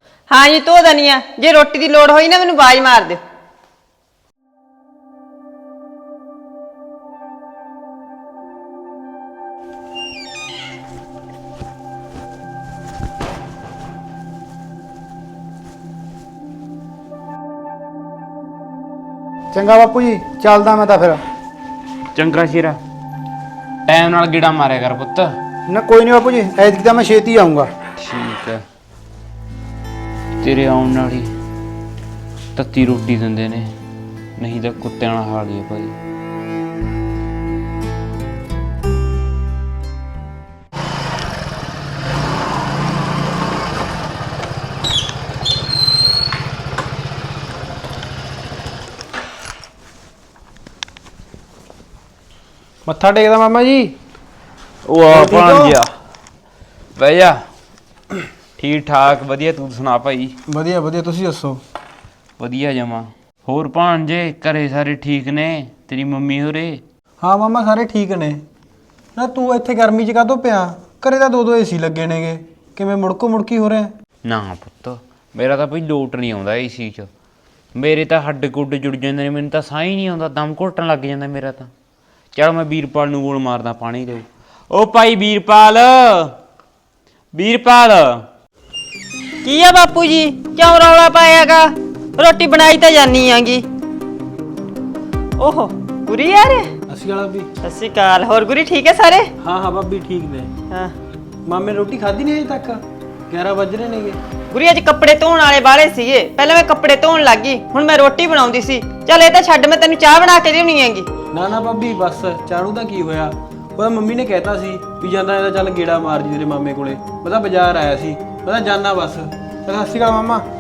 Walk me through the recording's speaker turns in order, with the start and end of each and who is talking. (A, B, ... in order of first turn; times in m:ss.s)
0:00.3-0:03.2 A
0:19.5-0:21.2 B
0:22.1-0:22.8 C
0:23.9-0:25.4 C
0:25.7-0:27.7 B
0:28.0-0:28.6 C
0:30.4-0:31.3 C
0:32.6-0:33.7 C
0:34.4-0:36.0 C
0:52.9-0:54.0 D
0:54.9-0:55.9 C
0:55.1-0:55.8 D
0:57.0-0:57.4 C
0:58.6-1:00.4 C
1:00.5-1:01.6 D
1:02.4-1:06.8 C
1:07.2-1:08.4 D
1:09.2-1:13.9 D
1:14.2-1:17.1 C
1:17.8-1:21.7 C
1:22.4-1:26.4 C
1:27.3-1:28.2 C
1:29.4-1:33.6 A
1:35.4-1:36.7 A
1:36.9-1:37.5 D
1:37.6-1:39.3 A
1:39.4-1:40.5 D
1:41.5-1:44.2 D
1:44.5-1:51.1 A
1:51.3-2:00.5 D